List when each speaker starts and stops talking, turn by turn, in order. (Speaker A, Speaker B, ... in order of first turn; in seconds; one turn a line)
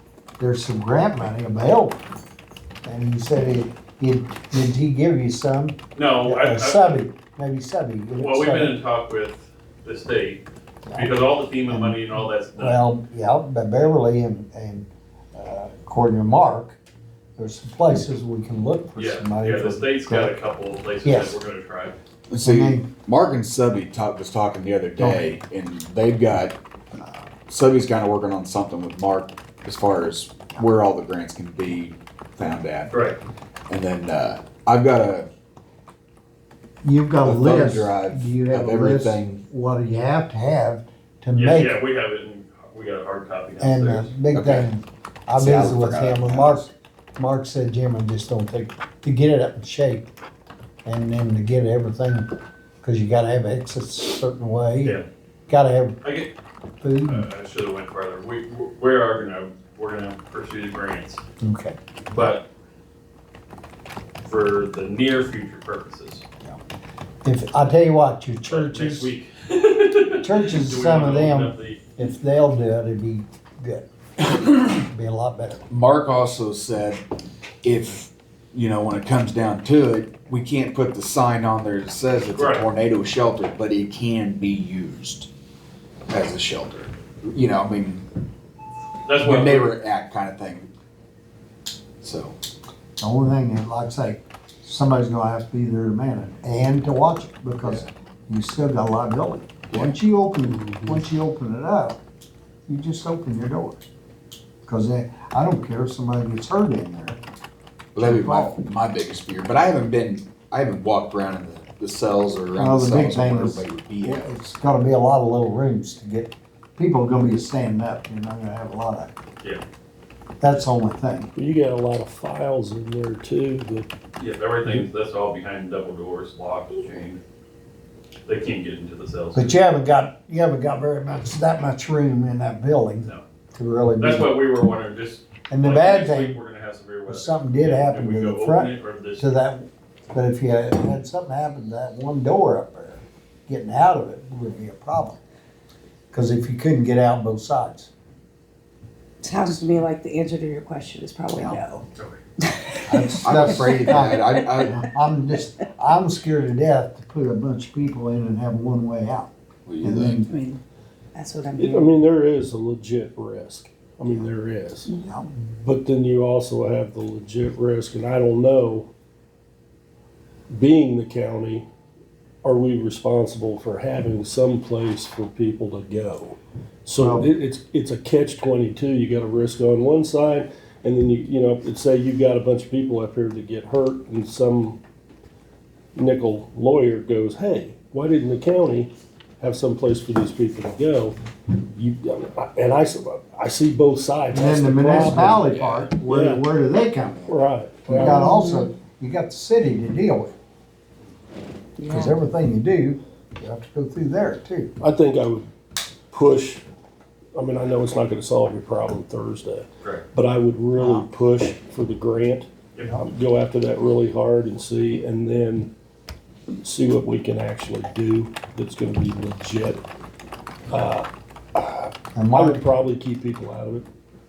Speaker A: 0.4-2.0
Speaker A: 2.8-8.8
Speaker B: 5.9-7.0
Speaker B: 8.1-10.4
Speaker B: 10.9-12.8
Speaker A: 11.7-16.8
Speaker A: 17.4-20.3
Speaker B: 18.9-21.9
Speaker A: 21.0-21.4
Speaker C: 22.3-26.6
Speaker A: 22.4-22.9
Speaker C: 27.5-32.9
Speaker B: 32.9-33.2
Speaker C: 33.7-35.3
Speaker A: 36.8-41.8
Speaker C: 37.2-39.4
Speaker B: 41.3-44.1
Speaker A: 43.6-50.1
Speaker C: 44.3-44.7
Speaker C: 45.4-46.7
Speaker A: 50.8-52.3
Speaker A: 52.8-56.0
Speaker B: 56.0-56.3
Speaker A: 56.8-57.2
Speaker B: 57.0-61.2
Speaker A: 61.4-61.8
Speaker B: 62.1-62.5
Speaker B: 64.2-66.2
Speaker A: 67.2-69.1
Speaker B: 68.5-71.9
Speaker A: 70.2-73.8
Speaker C: 74.3-74.8
Speaker A: 74.8-75.6
Speaker C: 75.7-77.0
Speaker C: 77.6-85.3
Speaker B: 82.3-82.7
Speaker C: 86.1-88.0
Speaker B: 89.0-89.7
Speaker C: 89.2-90.7
Speaker C: 92.0-92.3
Speaker A: 93.0-102.0
Speaker C: 99.7-99.9
Speaker D: 100.5-101.0
Speaker A: 102.7-103.8
Speaker A: 104.6-107.2
Speaker C: 107.9-114.3
Speaker A: 108.0-108.6
Speaker A: 112.5-119.1
Speaker A: 120.4-121.3
Speaker D: 121.3-123.9
Speaker B: 124.2-127.2
Speaker B: 128.3-129.6
Speaker A: 129.3-134.4
Speaker B: 134.0-139.3
Speaker A: 135.5-136.4
Speaker A: 137.1-145.2
Speaker A: 146.1-147.9
Speaker E: 149.2-151.8
Speaker E: 152.4-152.7
Speaker A: 152.8-160.3
Speaker C: 153.0-154.9
Speaker C: 159.7-160.3
Speaker E: 160.2-160.6
Speaker E: 161.1-162.0
Speaker D: 161.6-168.9
Speaker A: 165.0-165.3
Speaker D: 170.5-171.7
Speaker D: 172.4-184.8
Speaker A: 177.0-177.3
Speaker D: 185.9-196.4
Speaker A: 194.3-200.3
Speaker B: 195.3-195.9
Speaker D: 197.3-198.2
Speaker E: 198.0-198.7
Speaker E: 201.8-202.2
Speaker A: 201.9-204.7
Speaker D: 204.8-205.5
Speaker D: 206.1-206.6
Speaker D: 207.3-215.7
Speaker A: 210.8-211.1
Speaker D: 216.6-219.8
Speaker D: 220.7-223.9
Speaker A: 222.1-222.7